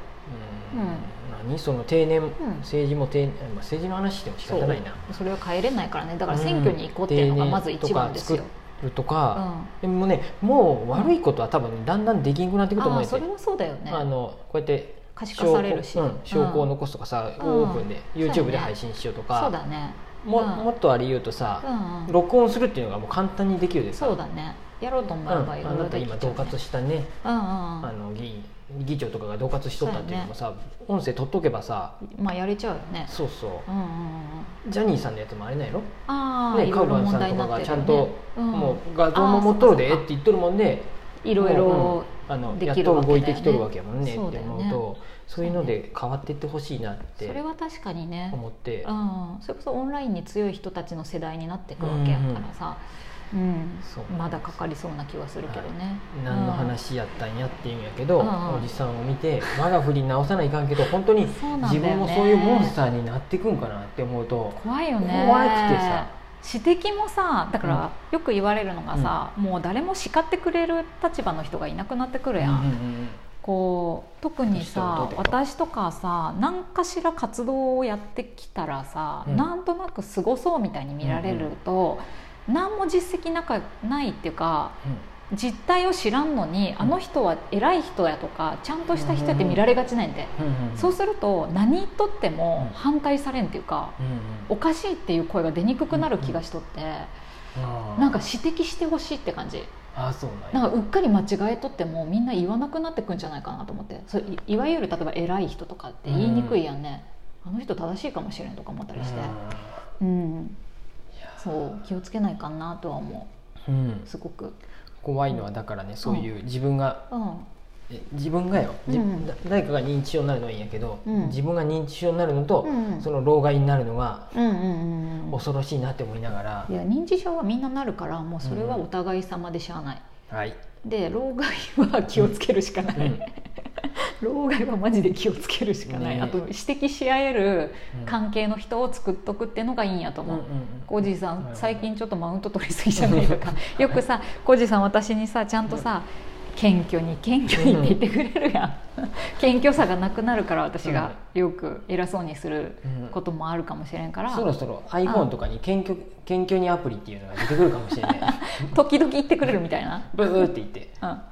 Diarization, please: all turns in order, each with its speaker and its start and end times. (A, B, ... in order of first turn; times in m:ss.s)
0:00.3-0:05.0 A
0:00.7-0:01.1 B
0:02.4-0:02.7 B
0:04.4-0:08.5 B
0:06.3-0:13.2 A
0:09.4-0:09.7 B
0:12.8-0:14.1 B
0:13.9-0:19.5 A
0:15.2-0:16.7 B
0:17.4-0:18.7 B
0:19.3-0:20.7 B
0:20.2-0:24.2 A
0:21.6-0:22.2 B
0:23.9-0:26.6 B
0:25.3-0:27.1 A
0:27.2-0:27.9 B
0:27.8-0:32.0 A
0:29.8-0:30.3 B
0:32.0-0:33.1 B
0:33.1-0:33.7 A
0:33.7-0:34.6 B
0:34.6-0:35.9 A
0:36.1-0:40.1 B
0:36.5-0:47.4 A
0:41.2-0:44.8 B
0:45.4-0:45.7 B
0:47.2-0:56.7 B
0:48.3-0:48.9 A
0:51.8-0:52.5 A
0:53.8-0:54.6 A
0:55.5-1:06.1 A
0:58.2-0:58.7 B
1:01.3-1:02.8 B
1:04.6-1:12.7 B
1:12.4-1:13.2 A
1:13.4-1:24.8 B
1:14.5-1:15.4 A
1:21.0-1:21.5 A
1:25.3-1:37.1 B
1:28.9-1:29.6 A
1:30.4-1:31.0 A
1:34.0-1:34.5 A
1:35.9-1:36.4 A
1:37.6-1:38.2 A
1:38.0-1:39.7 B
1:39.9-1:40.7 A
1:40.5-1:49.4 B
1:46.1-1:46.6 A
1:49.0-1:49.8 A
1:50.0-1:50.6 B
1:51.2-1:51.8 A
1:51.4-1:53.3 B
1:53.7-1:54.1 A
1:54.1-1:54.6 B
1:55.0-1:57.1 A
1:57.1-1:57.5 B
1:57.9-2:04.4 A
1:58.9-1:59.3 B
2:01.1-2:01.4 B
2:02.6-2:03.1 B
2:04.3-2:05.4 B
2:05.3-2:06.7 A
2:06.7-2:10.1 B
2:08.4-2:08.8 A
2:10.3-2:10.6 A
2:10.8-2:34.5 B
2:13.0-2:13.2 A
2:15.9-2:16.4 A
2:20.3-2:21.8 A
2:23.0-2:23.8 A
2:27.6-2:28.0 A
2:30.8-2:31.2 A
2:32.8-2:33.2 A
2:34.3-2:38.8 A
2:37.6-2:40.5 B
2:40.1-2:41.0 A